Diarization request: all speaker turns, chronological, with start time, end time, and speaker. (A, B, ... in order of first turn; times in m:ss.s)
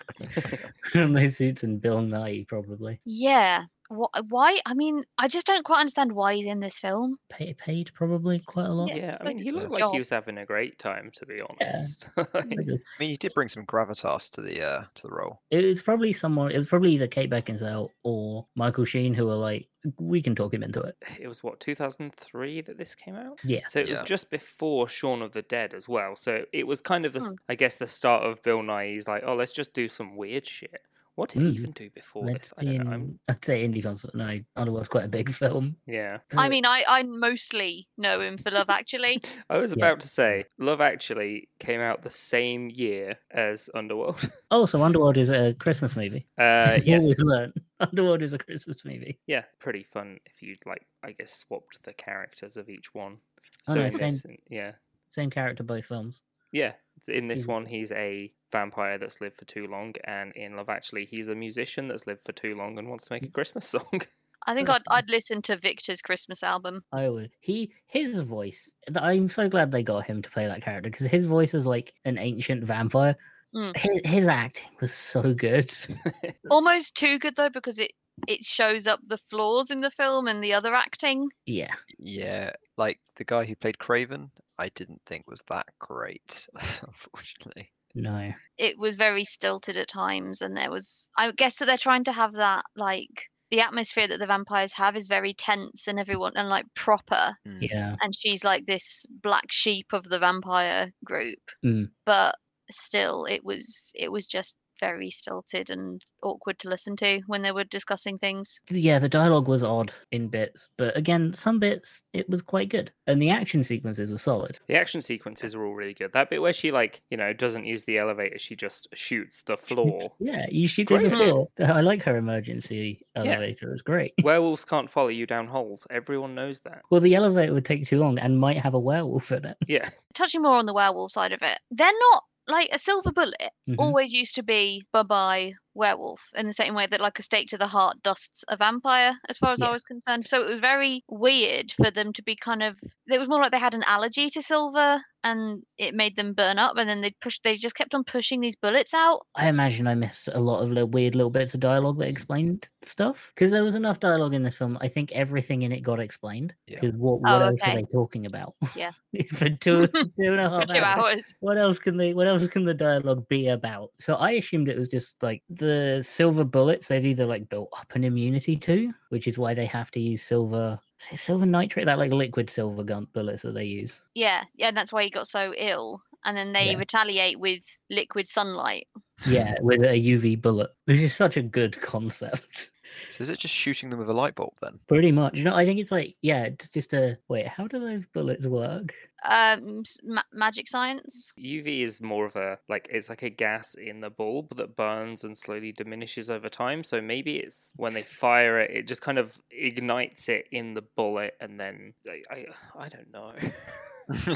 0:00.4-0:00.7 A
0:00.8-0:03.0 B
0:03.1-0:07.2 C
0:07.3-0:09.0 B
0:08.8-0:10.0 C
0:08.8-0:12.6 D
0:11.6-0:11.9 B
0:12.6-0:12.8 B
0:13.0-0:15.4 A
0:15.5-0:21.0 B
0:21.0-0:33.1 D
0:23.4-0:23.7 B
0:23.8-0:24.1 A
0:31.4-0:31.7 B
0:32.2-0:35.8 B
0:35.9-0:36.3 D
0:36.3-0:36.6 B
0:36.4-0:39.2 C
0:39.5-0:44.3 D
0:44.5-0:49.2 B
0:46.4-0:47.2 D
0:49.3-0:54.8 D
0:53.7-0:54.2 B
0:55.1-0:56.2 B
0:56.5-1:04.1 D
0:57.3-0:57.6 B
1:04.4-1:06.8 C
1:04.6-1:05.0 B
1:06.9-1:13.2 B
1:13.8-1:15.9 B
1:16.1-1:16.3 D
1:16.5-1:21.3 C
1:21.5-1:21.8 B
1:22.0-1:27.7 A
1:28.0-1:28.4 B
1:28.6-1:37.4 C
1:37.4-1:37.8 A
1:37.6-1:38.0 B
1:38.0-1:48.6 C
1:41.6-1:41.9 B
1:48.7-1:54.6 B
1:54.7-2:00.1 D
1:59.8-2:04.2 B
2:00.9-2:01.2 D
2:01.1-2:01.4 C
2:04.2-2:06.8 D
2:06.9-2:09.6 B
2:09.7-2:09.9 D
2:10.1-2:29.2 C
2:13.7-2:14.0 B
2:29.4-2:54.0 B
2:37.2-2:37.8 C
2:39.7-2:40.0 C
2:40.6-2:41.3 C
2:54.2-2:58.9 C
2:59.2-3:02.7 B
3:03.1-3:04.8 A
3:04.9-3:09.0 B
3:09.2-3:11.3 C
3:11.4-3:24.0 D